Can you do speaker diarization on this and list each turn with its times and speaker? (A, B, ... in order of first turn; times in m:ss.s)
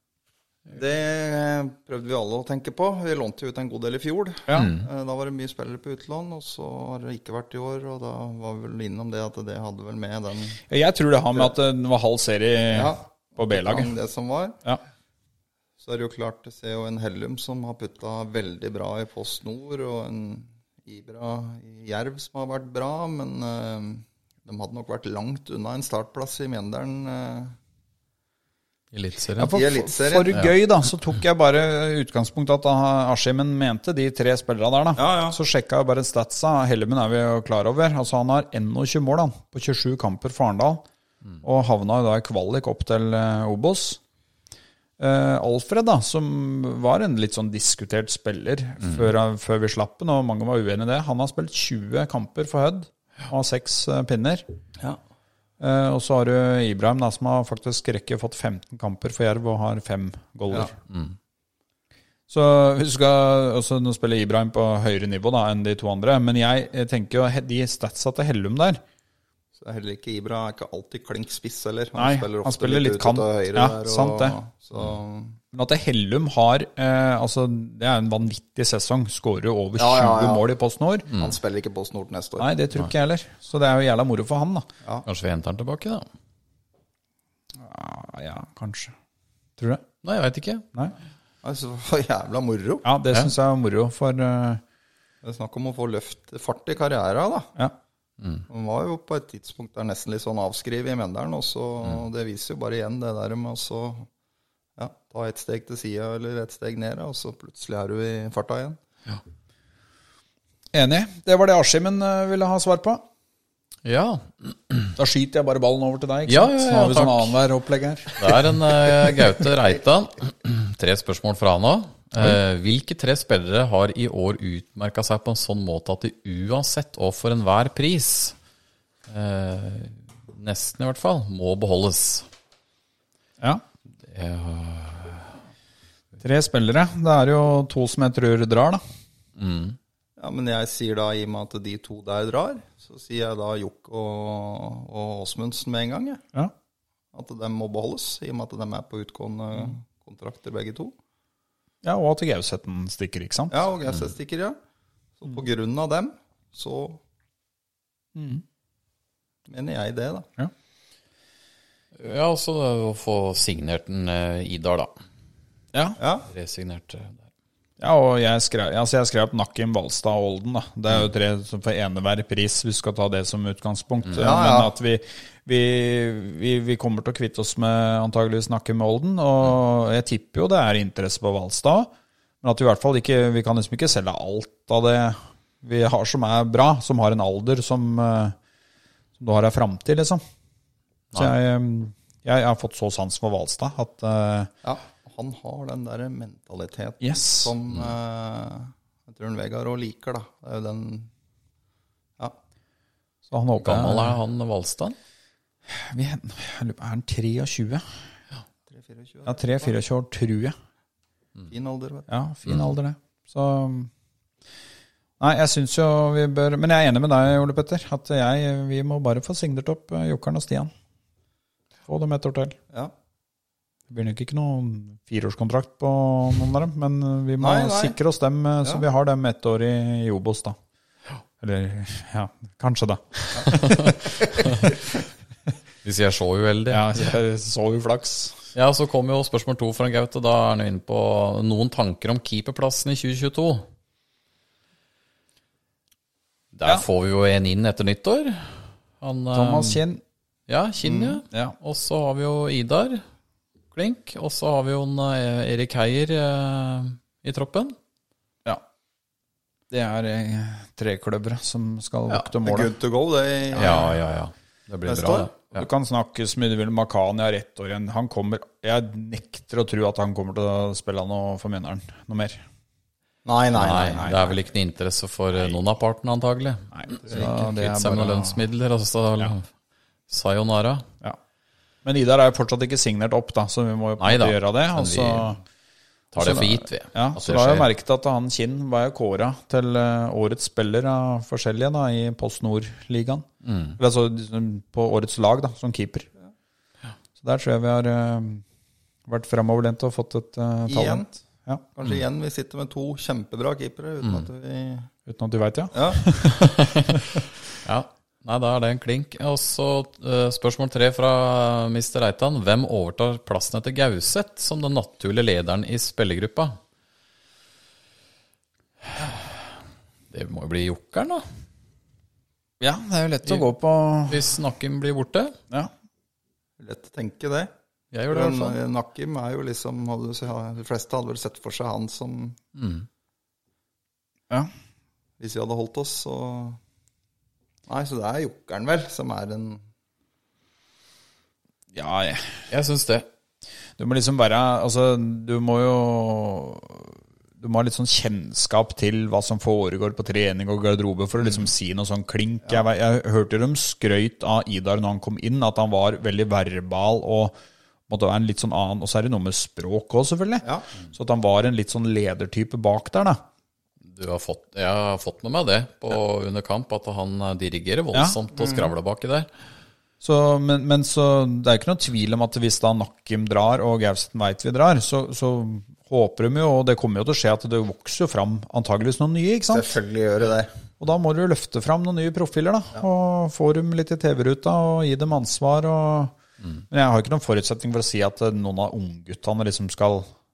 0:00.7-0:10.6 A
0:04.5-0:04.8 B
0:10.7-0:13.9 C
0:12.7-0:14.6 A
0:15.8-0:27.6 A
0:28.9-0:29.6 B
0:29.4-0:40.8 C
0:29.5-0:30.4 A
0:35.0-0:35.4 A
0:41.4-0:44.0 C
0:45.0-0:54.4 C
0:55.6-1:00.7 C
1:00.9-1:01.1 B
1:02.3-1:08.8 C
1:09.6-1:15.4 A
1:12.0-1:14.4 C
1:15.5-1:21.1 C
1:19.8-1:20.5 A
1:21.1-1:22.5 A
1:21.1-1:21.4 B
1:22.4-1:24.7 C
1:25.0-1:26.1 B
1:27.6-1:28.9 C
1:29.6-1:29.8 C
1:30.0-1:30.6 B
1:31.4-1:32.8 A
1:32.8-1:34.6 C
1:35.2-1:37.5 A
1:38.2-1:38.4 B
1:38.5-1:44.1 A
1:44.8-1:48.8 A
1:50.7-1:53.0 C
1:53.8-1:54.9 B
1:55.0-1:58.5 C
1:56.3-1:57.4 B
1:58.2-2:08.3 B
2:09.1-2:12.3 B
2:14.0-2:15.3 B
2:16.2-2:18.8 C
2:19.4-2:19.8 B
2:20.2-2:26.2 A
2:27.1-2:30.9 A
2:31.8-2:33.6 C
2:33.5-2:34.6 A
2:35.2-2:37.0 A
2:38.2-2:38.4 C
2:39.4-2:40.3 A
2:42.0-2:44.9 B
2:45.7-2:46.0 C
2:46.0-2:46.3 A
2:46.3-2:47.3 B
2:47.8-3:01.9 C
2:54.2-2:54.7 A
3:02.4-3:08.4 C
3:09.2-3:10.2 C
3:11.1-3:14.5 C
3:14.6-3:21.1 A
3:17.0-3:17.5 C
3:23.3-3:24.2 C
3:23.6-3:25.0 B
3:25.7-3:27.8 C
3:28.7-3:29.7 A
3:29.2-3:30.6 C
3:31.5-3:32.1 A
3:32.1-3:33.9 C
3:35.2-3:40.7 C
3:41.9-3:42.6 C
3:43.9-3:50.6 C
3:47.4-3:48.0 A
3:51.4-3:53.9 C
3:53.4-3:54.7 B
3:55.8-3:56.9 B
3:56.7-3:58.4 C
3:58.5-4:03.6 B
4:06.5-4:09.8 B
4:09.3-4:10.0 C
4:10.5-4:13.0 B
4:10.8-4:11.2 A
4:11.3-4:11.6 C
4:13.7-4:17.8 B
4:19.7-4:22.7 C
4:22.4-4:23.9 A
4:23.5-4:25.6 B
4:23.6-4:23.9 C
4:24.8-4:25.3 A
4:25.5-4:32.4 C
4:33.2-4:34.2 A
4:33.5-4:39.4 B
4:34.0-4:34.3 C
4:36.7-4:38.4 C
4:37.1-4:37.3 A
4:40.1-4:40.8 B
4:41.8-4:45.4 C
4:44.0-4:45.4 B
4:46.1-4:47.7 B
4:46.2-4:53.2 C
4:53.4-4:53.8 B
4:53.8-4:56.1 C
4:57.2-4:58.4 C
4:59.1-5:01.6 C
5:00.7-5:01.1 A
5:01.7-5:04.9 A
5:05.1-5:07.0 C
5:05.7-5:06.0 A
5:06.3-5:07.0 B
5:07.6-5:16.6 B
5:20.1-5:21.2 B
5:22.6-5:24.3 C
5:24.1-5:25.4 B
5:26.6-5:27.5 A
5:27.9-5:28.6 B
5:28.1-5:32.4 A
5:32.5-5:32.9 B
5:35.2-5:36.6 A
5:37.7-5:39.6 A
5:41.7-5:42.4 C
5:42.5-5:43.1 B
5:43.8-5:57.4 C
5:57.9-6:03.2 C
6:03.8-6:09.3 B
6:08.4-6:08.7 A
6:10.0-6:19.8 C
6:19.5-6:20.5 A
6:20.8-6:26.1 C
6:26.7-6:30.1 C